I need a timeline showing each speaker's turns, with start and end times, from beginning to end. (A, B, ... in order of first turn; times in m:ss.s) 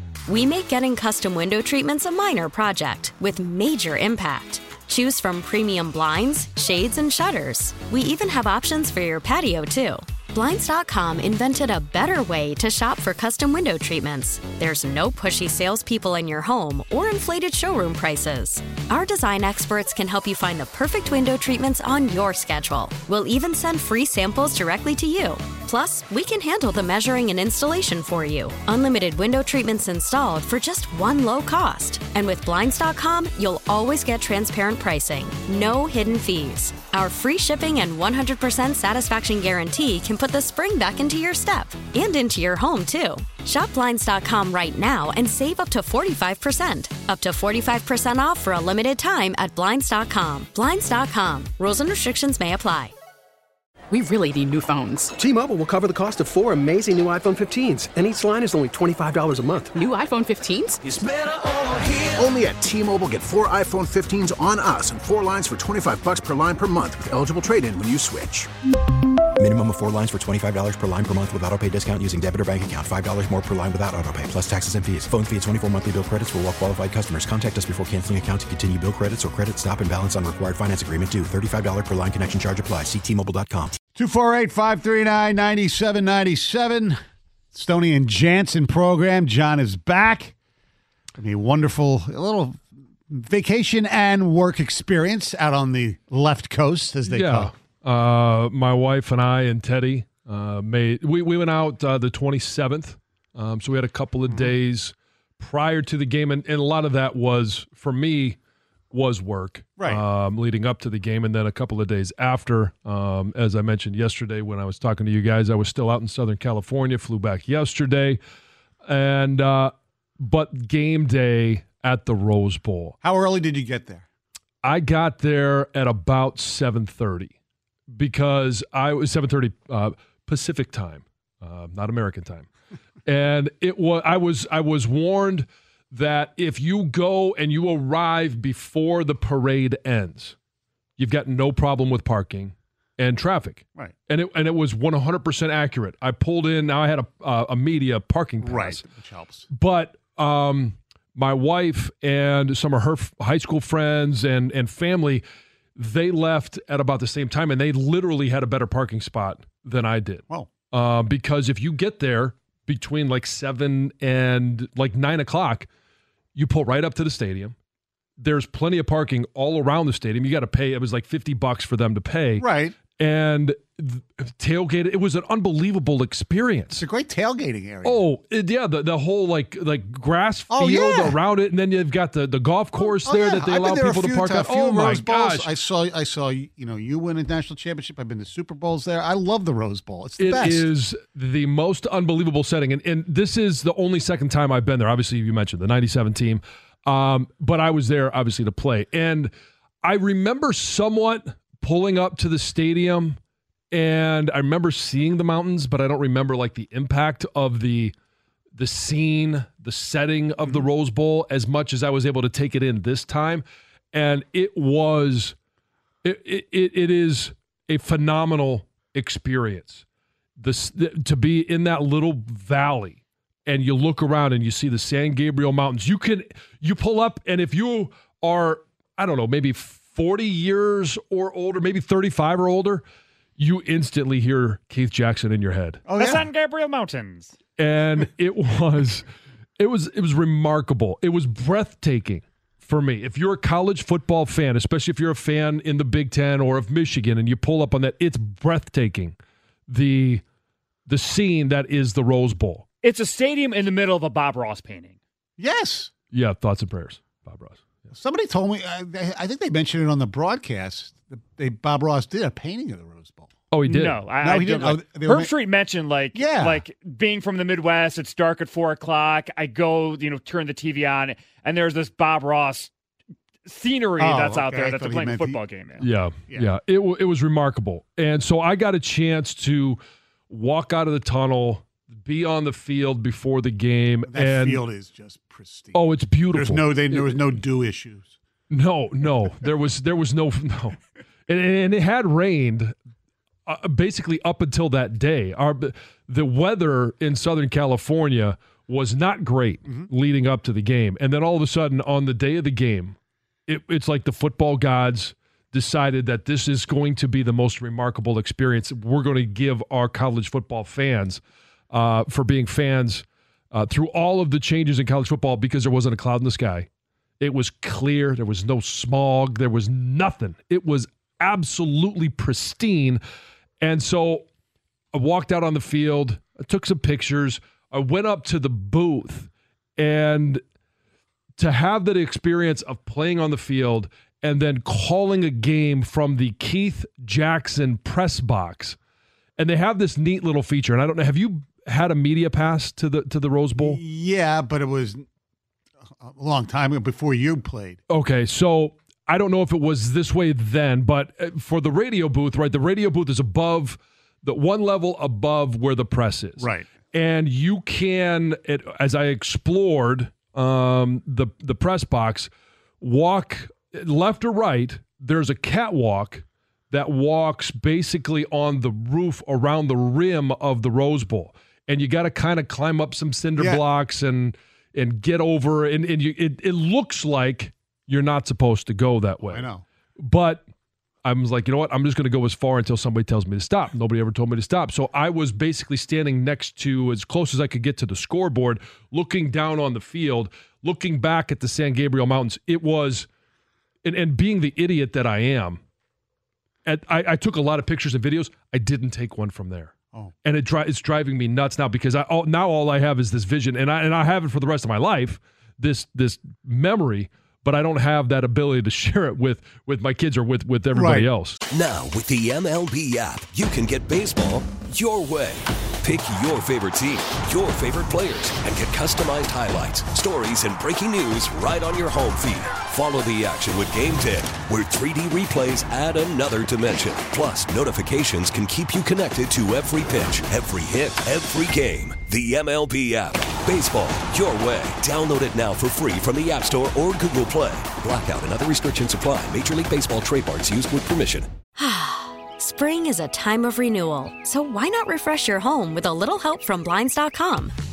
0:00.3-0:52.9 A
0:53.9-0:55.1 B
0:55.2-0:59.7 C
0:59.8-1:00.8 B
1:02.1-1:08.5 D
1:09.4-1:23.8 E
1:24.0-1:27.0 F
1:27.5-1:30.3 F
1:31.2-1:37.5 F
1:37.1-1:48.4 G
1:48.9-1:58.2 G
1:58.9-2:03.0 G
2:03.0-2:04.0 F
2:04.6-2:07.3 G
2:07.9-2:12.5 G
2:13.1-2:20.4 G
2:21.0-2:28.8 G
2:28.4-2:29.5 F
2:29.5-2:35.2 G
2:35.8-2:45.7 G
2:46.4-2:47.5 G
2:48.2-2:56.8 G
2:52.4-2:52.8 F
2:56.8-2:58.0 F
2:57.8-3:05.5 G
3:00.5-3:01.2 F
3:02.8-3:10.7 F
3:10.2-3:19.3 G
3:19.8-3:23.2 G
3:23.7-3:27.9 G
3:28.6-3:35.4 G
3:36.0-3:39.8 G
3:40.4-3:52.8 G
3:53.4-3:55.9 G
3:55.9-3:56.2 F
3:56.0-3:57.4 H
3:57.6-3:59.0 G
3:59.6-4:09.2 G
4:09.7-4:10.2 G
4:10.9-4:12.7 G
4:12.8-4:15.0 H
4:15.4-4:15.9 F
4:16.1-4:17.6 G
4:17.9-4:23.3 F
4:23.5-4:24.1 G
4:23.7-4:32.7 H
4:24.2-4:25.3 F
4:26.1-4:26.6 F
4:33.4-4:35.8 H
4:34.0-4:35.4 F
4:35.8-4:44.6 G
4:44.1-4:48.2 F
4:45.7-4:47.1 G
4:48.5-4:52.8 G
4:53.5-5:03.0 G
5:03.5-5:16.7 G
5:17.2-5:23.0 G
5:23.6-5:24.3 G
5:24.9-5:30.4 G
5:31.4-5:38.8 G
5:39.4-5:43.8 G
5:43.6-5:45.0 F
5:46.0-5:47.8 F
5:47.9-6:20.4 G
5:56.4-5:56.7 F
6:13.4-6:13.6 F
6:19.2-6:19.6 F
6:21.0-6:33.1 G
6:33.8-6:35.6 G
6:36.7-6:39.7 G
6:40.2-6:51.4 G
6:50.7-6:51.1 F
6:51.5-7:21.3 I
7:21.6-7:27.5 A